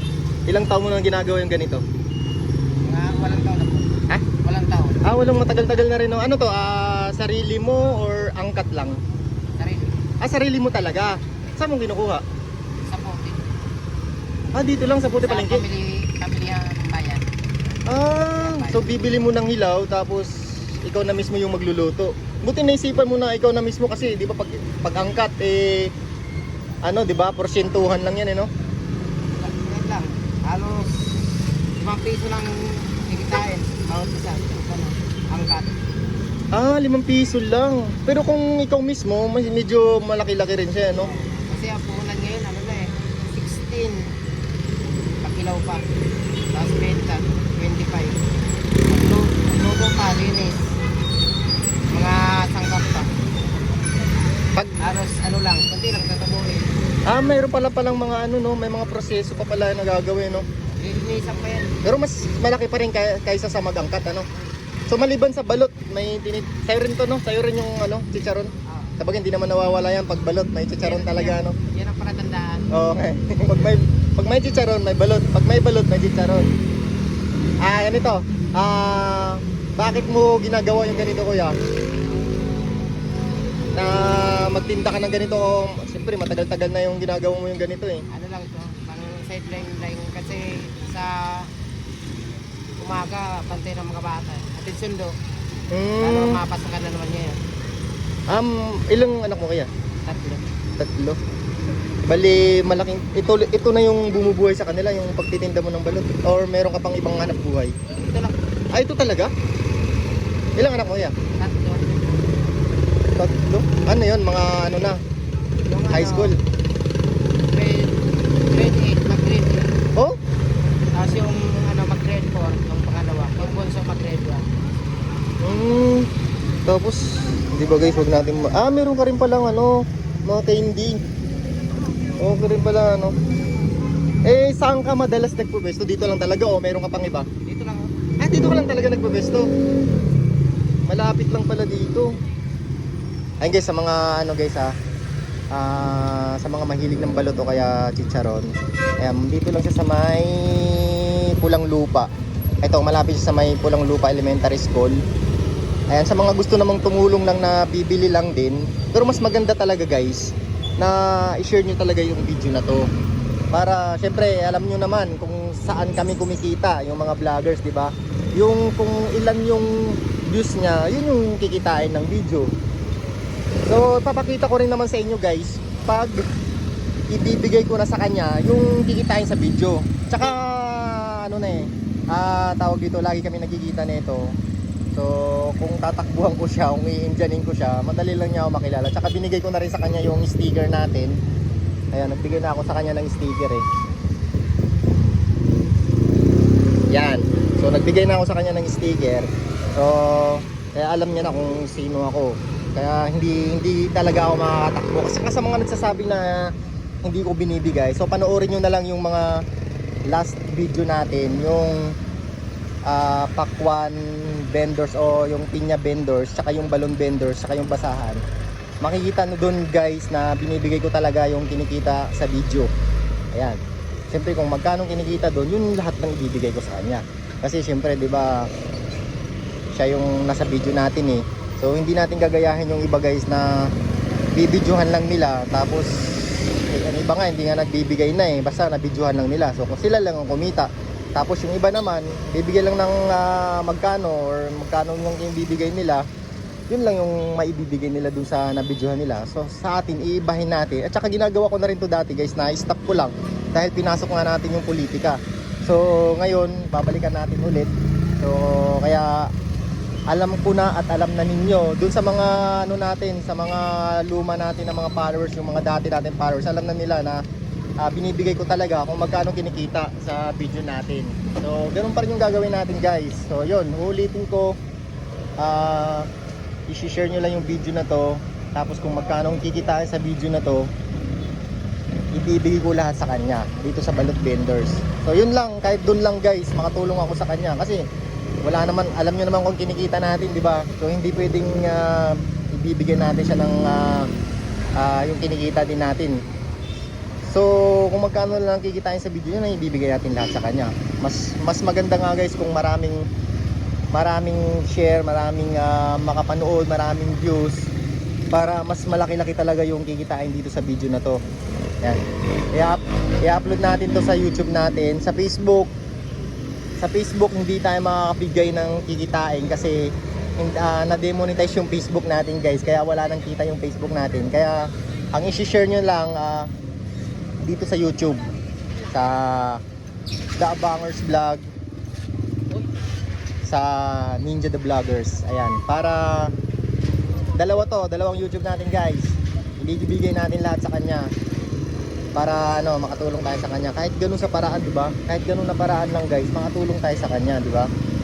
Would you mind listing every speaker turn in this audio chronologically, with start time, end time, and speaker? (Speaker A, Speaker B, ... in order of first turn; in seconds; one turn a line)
Speaker A: 0.5-1.8
Speaker B: 2.8-5.0
Speaker A: 5.0-9.0
Speaker B: 9.6-10.0
Speaker A: 10.2-12.2
Speaker B: 12.8-13.4
Speaker A: 14.5-15.6
Speaker B: 15.2-17.2
Speaker A: 17.9-20.3
Speaker B: 18.3-19.0
Speaker A: 20.8-25.9
Speaker A: 26.8-28.5
Speaker B: 29.3-30.9
Speaker B: 31.8-35.7
Speaker A: 36.5-41.1
Speaker B: 41.0-44.1
Speaker B: 45.2-45.8
Speaker B: 46.5-48.2
Speaker B: 48.9-50.7
Speaker B: 51.9-53.1
Speaker B: 54.8-57.0
Speaker A: 57.0-60.4
Speaker B: 60.8-61.8
Speaker A: 61.8-64.2
Speaker A: 64.9-71.5
Speaker B: 68.7-68.9
Speaker B: 70.8-72.6
Speaker A: 72.7-76.5
Speaker A: 77.6-81.5
Speaker A: 83.7-88.0
Speaker B: 88.1-91.5
Speaker B: 92.8-95.1
Speaker A: 95.7-96.4
Speaker B: 96.0-97.4
Speaker A: 98.3-99.7
Speaker B: 100.0-100.4
Speaker A: 100.8-101.2
Speaker A: 102.0-107.7
Speaker B: 108.0-108.3
Speaker A: 108.7-109.3
Speaker A: 110.6-111.1
Speaker B: 111.4-111.9
Speaker A: 113.2-115.0
Speaker B: 115.7-116.3
Speaker A: 115.9-116.3
Speaker B: 117.5-117.9
Speaker B: 118.5-119.7
Speaker B: 120.9-124.4
Speaker A: 125.4-126.1
Speaker A: 126.7-130.9
Speaker A: 132.2-133.1
Speaker A: 134.2-137.3
Speaker B: 137.4-137.9
Speaker A: 138.2-139.5
Speaker A: 140.9-142.1
Speaker A: 143.4-144.7
Speaker A: 145.5-152.1
Speaker A: 152.6-155.0
Speaker A: 155.9-162.8
Speaker A: 163.5-169.7
Speaker A: 170.3-172.5
Speaker A: 173.7-176.3
Speaker A: 177.1-184.2
Speaker A: 184.9-191.1
Speaker A: 191.9-193.6
Speaker A: 196.9-206.4
Speaker A: 207.0-209.3
Speaker A: 210.1-211.8
Speaker A: 212.9-218.2
Speaker A: 218.8-222.7
Speaker A: 223.3-223.6
Speaker A: 224.1-228.4
Speaker A: 229.7-233.5
Speaker A: 234.3-235.9
Speaker A: 236.7-246.0
Speaker A: 246.7-257.7
Speaker A: 258.2-259.1
Speaker A: 260.1-267.2
Speaker A: 267.8-274.6
Speaker A: 275.4-276.1
Speaker A: 276.7-280.6
Speaker A: 282.1-287.8
Speaker A: 288.4-294.1
Speaker A: 294.8-296.1
Speaker A: 297.3-303.0
Speaker A: 303.9-307.7
Speaker A: 308.3-311.2
Speaker A: 312.5-315.7
Speaker A: 316.8-319.8
Speaker A: 320.4-326.5
Speaker A: 327.4-328.3
Speaker A: 328.9-329.6
Speaker A: 330.4-331.4
Speaker A: 333.4-336.3
Speaker A: 337.4-341.1
Speaker A: 342.1-347.7